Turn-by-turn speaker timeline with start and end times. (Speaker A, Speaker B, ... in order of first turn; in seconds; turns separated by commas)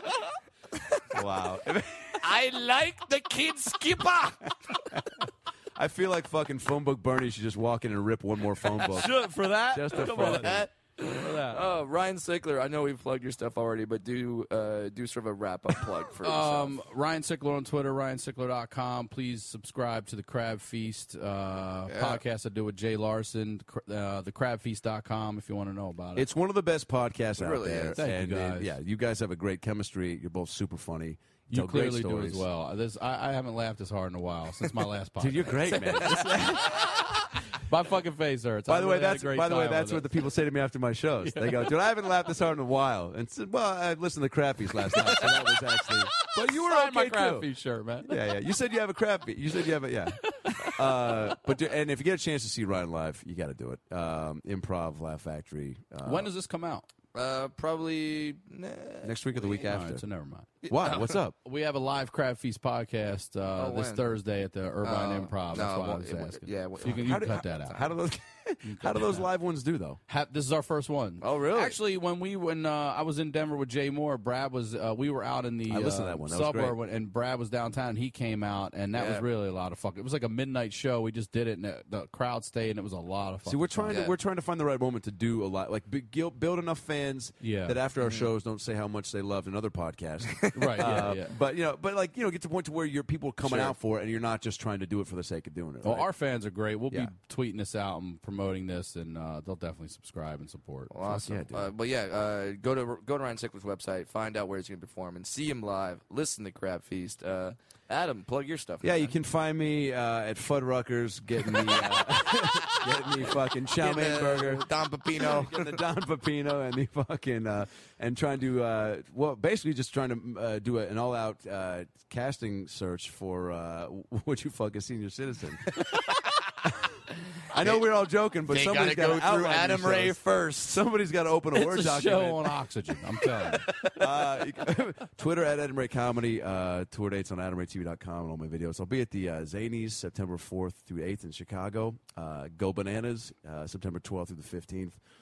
Speaker A: 1.1-2.3, Speaker B: 2.2-5.0, Speaker A: 4.9-10.7, Speaker C: 8.9-11.7, Speaker B: 9.9-16.8, Speaker C: 16.2-26.3, Speaker B: 21.9-22.2, Speaker A: 26.1-32.5, Speaker B: 27.4-28.0, Speaker C: 27.9-28.8, Speaker C: 31.5-40.1, Speaker A: 35.2-37.0, Speaker A: 38.7-47.5, Speaker C: 41.2-41.8, Speaker C: 44.9-48.2, Speaker A: 48.1-56.3, Speaker C: 50.2-51.3, Speaker C: 56.0-56.9, Speaker B: 57.1-59.7, Speaker A: 59.0-60.0, Speaker C: 59.6-60.5, Speaker A: 60.6-61.4, Speaker B: 60.6-61.2, Speaker C: 61.4-67.9, Speaker B: 63.6-64.1, Speaker B: 64.8-67.3, Speaker A: 66.8-70.0, Speaker C: 68.6-69.3, Speaker C: 70.1-84.0, Speaker B: 71.2-71.8, Speaker A: 75.7-76.8, Speaker B: 79.0-79.2, Speaker A: 83.5-96.1, Speaker B: 83.9-84.2, Speaker C: 87.4-87.8, Speaker B: 88.0-88.3, Speaker B: 90.3-91.1, Speaker C: 90.5-91.3, Speaker B: 93.4-93.8, Speaker C: 95.8-101.4, Speaker B: 100.9-109.1, Speaker A: 101.1-101.7, Speaker A: 108.8-125.8, Speaker B: 111.7-113.0, Speaker B: 113.7-115.8, Speaker B: 125.8-126.5, Speaker A: 126.6-126.9, Speaker A: 127.5-132.6, Speaker B: 127.5-127.9, Speaker B: 128.5-130.8, Speaker C: 131.5-133.8, Speaker B: 133.5-134.2, Speaker A: 133.9-145.0